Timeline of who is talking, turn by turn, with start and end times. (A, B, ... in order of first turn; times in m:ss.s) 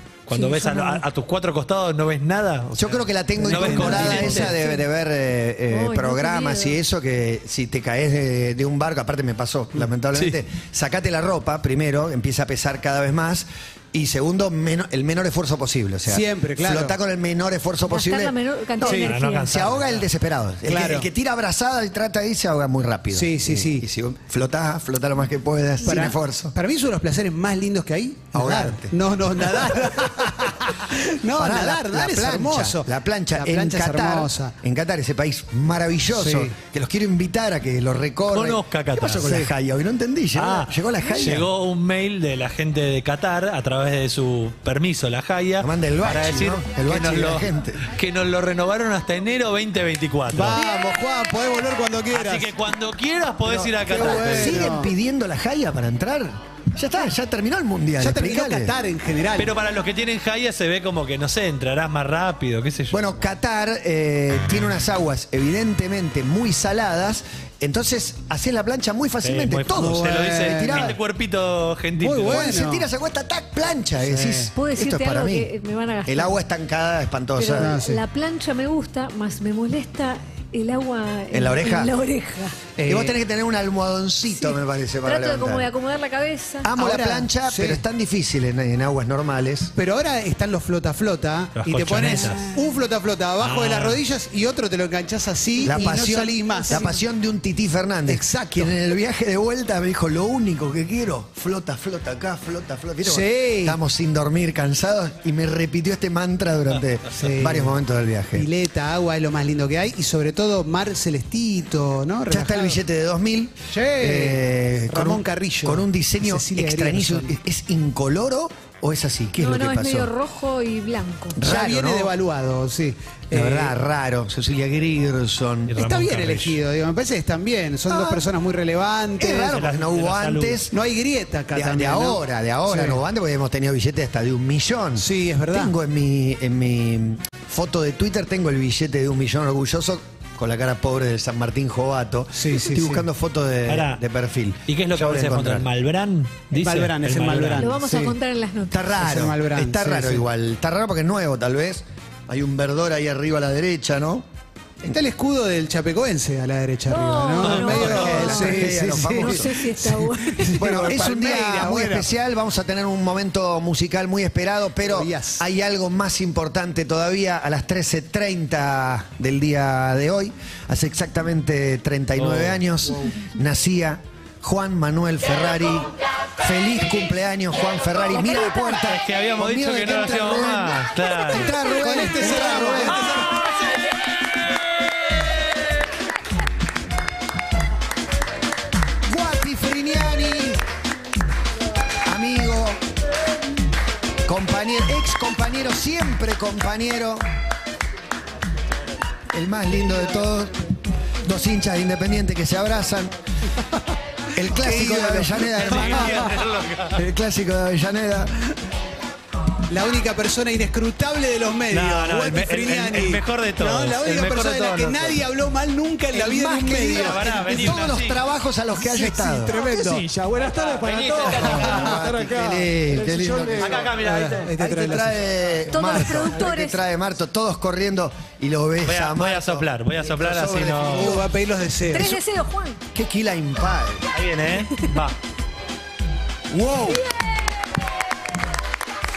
0:00.3-0:04.5 A
0:00.3-0:01.0 B
0:02.8-0:26.6 C
0:03.4-0:04.5 D
0:05.7-0:06.8 B
0:16.1-0:17.0 D
0:17.9-0:19.5 B
0:18.8-0:19.1 D
0:18.8-0:20.0 A
0:20.7-0:21.1 D
0:23.1-0:23.8 D
0:25.8-0:34.5 D
0:28.3-0:30.0 C
0:31.3-0:41.5 C
0:36.1-0:36.5 D
0:38.3-0:39.5 A
0:40.4-0:50.6 A
0:45.6-0:47.8 C
0:50.3-0:52.5 D
0:52.1-0:54.7 A
0:53.5-0:58.8 C
0:53.9-0:54.9 D
0:58.0-0:59.5 D
0:59.4-1:03.0 A
1:02.9-1:11.0 C
1:09.2-1:12.6 A
1:09.7-1:10.9 D
1:12.0-1:12.9 D
1:12.2-1:15.5 C
1:14.0-1:14.5 D
1:14.6-1:16.4 B
1:16.1-1:17.8 C
1:17.4-1:22.6 B
1:17.6-1:18.0 D
1:21.3-1:21.9 C
1:22.8-1:23.2 D
1:22.8-1:25.7 C
1:24.3-1:26.7 B
1:26.6-1:29.7 C
1:26.8-1:27.8 D
1:29.8-1:37.0 D
1:31.6-1:32.5 A
1:33.4-1:34.0 A
1:35.6-1:36.9 B
1:35.6-1:48.5 C
1:38.1-1:38.8 D
1:43.0-1:43.8 D
1:47.2-1:47.8 D
1:48.3-1:52.8 D
1:52.3-2:00.1 C
1:53.7-1:57.4 D
1:59.4-2:01.4 B
2:01.4-2:02.1 C
2:01.4-2:03.8 D
2:03.3-2:05.7 C
2:05.7-2:06.6 A
2:05.8-2:09.6 D
2:07.9-2:08.2 C
2:09.2-2:10.7 C
2:09.5-2:10.6 A
2:10.7-2:13.0 D
2:11.5-2:25.7 C
2:15.0-2:15.7 D
2:22.3-2:23.0 D
2:23.7-2:24.0 A
2:24.7-2:27.7 A
2:26.6-2:28.2 D
2:27.6-2:28.8 B
2:28.7-2:34.3 C
2:29.0-2:30.2 D
2:34.8-2:42.1 D
2:36.9-2:40.9 B
2:37.4-2:38.5 A
2:37.5-2:39.5 C
2:40.6-3:03.1 C
2:44.8-2:45.4 D
2:52.2-2:52.6 A
2:52.9-2:53.1 D
2:58.1-2:58.9 B
2:58.8-3:01.5 A
3:01.7-3:03.4 D
3:09.0-3:10.6 C
3:12.0-3:12.8 C
3:14.3-3:17.2 C
3:19.3-3:20.6 C
3:21.2-3:23.1 C
3:24.4-3:26.4 C
3:24.4-3:26.5 D
3:25.6-3:27.0 A
3:26.9-3:28.3 C
3:29.7-3:37.8 D
3:31.7-3:35.2 A
3:36.1-3:39.5 C
3:36.8-3:38.2 A
3:38.8-3:40.0 D
3:39.5-3:44.3 E
3:40.5-3:42.0 A
3:41.4-3:43.9 C
3:41.5-3:41.8 D
3:43.6-3:44.5 A
3:44.0-3:45.2 D
3:44.5-3:51.3 C
3:45.7-3:46.8 B
3:48.8-3:51.2 A
3:50.8-3:52.2 D
3:51.9-3:52.8 B
3:52.9-3:54.0 C
3:54.1-3:55.2 A
3:56.5-3:57.0 C
3:56.9-3:57.3 B